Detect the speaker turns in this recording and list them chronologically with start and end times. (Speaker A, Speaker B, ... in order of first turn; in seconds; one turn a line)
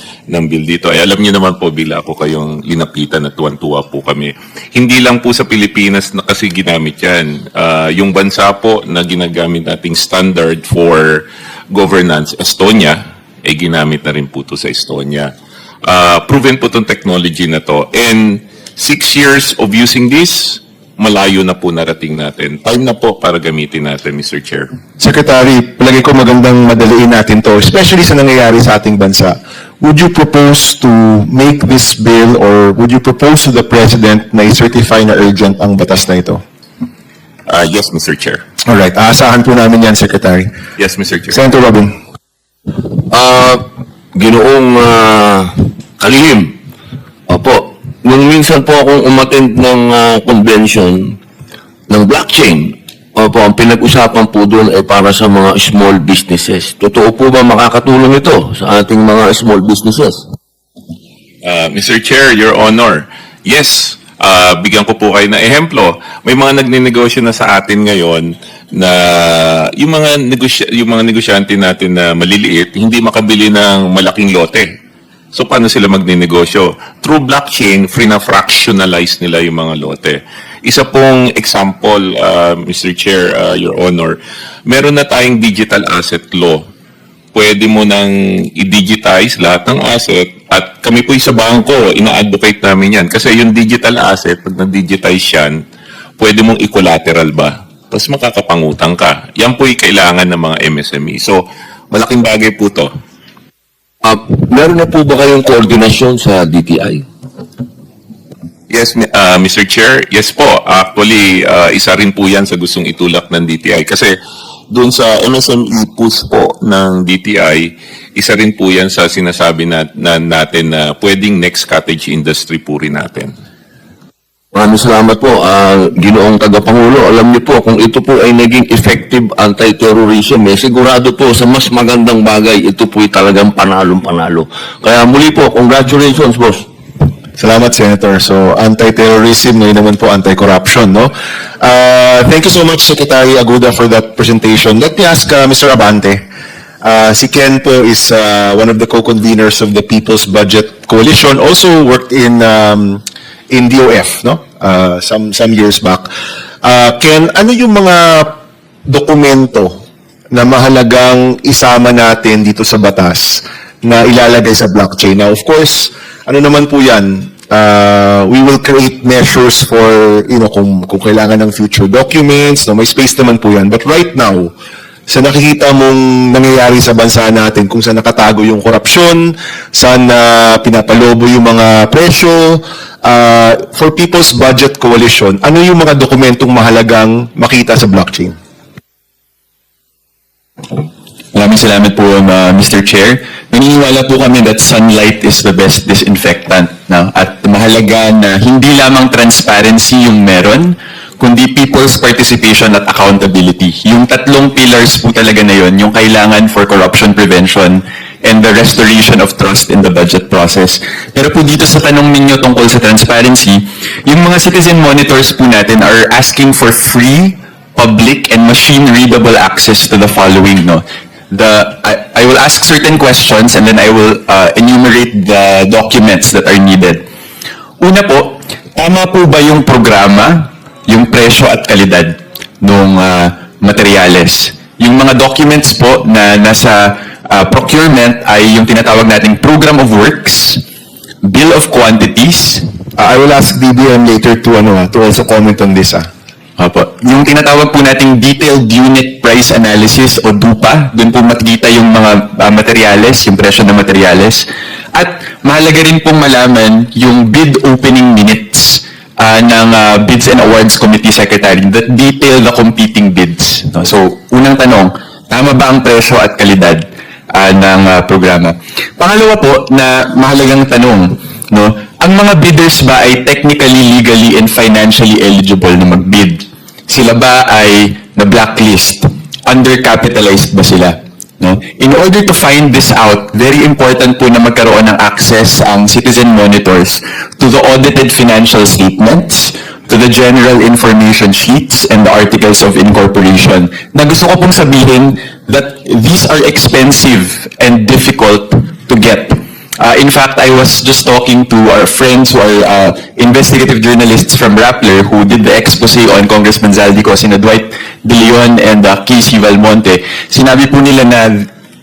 Speaker A: 0.3-15.3
Speaker A: 15.9-24.7
Speaker B: 25.0-36.4
Speaker A: 37.5-38.4
Speaker B: 38.7-40.5
Speaker A: 40.8-41.4
Speaker B: 41.3-41.9
Speaker C: 43.0-43.6
Speaker C: 44.1-46.5
Speaker C: 47.3-51.2
Speaker C: 51.9-60.2
Speaker A: 61.4-74.7
Speaker A: 75.3-86.6
Speaker A: 87.3-95.6
Speaker A: 96.2-102.9
Speaker C: 104.0-107.0
Speaker A: 108.7-114.2
Speaker A: 114.7-123.3
Speaker C: 124.5-136.6
Speaker B: 137.4-146.2
Speaker B: 146.8-156.1
Speaker B: 156.6-159.8
Speaker B: 160.3-174.5
Speaker B: 175.1-188.3
Speaker D: 191.3-227.0
Speaker D: 227.8-240.6
Speaker D: 241.2-242.6
Speaker B: 243.0-246.1
Speaker D: 246.6-311.5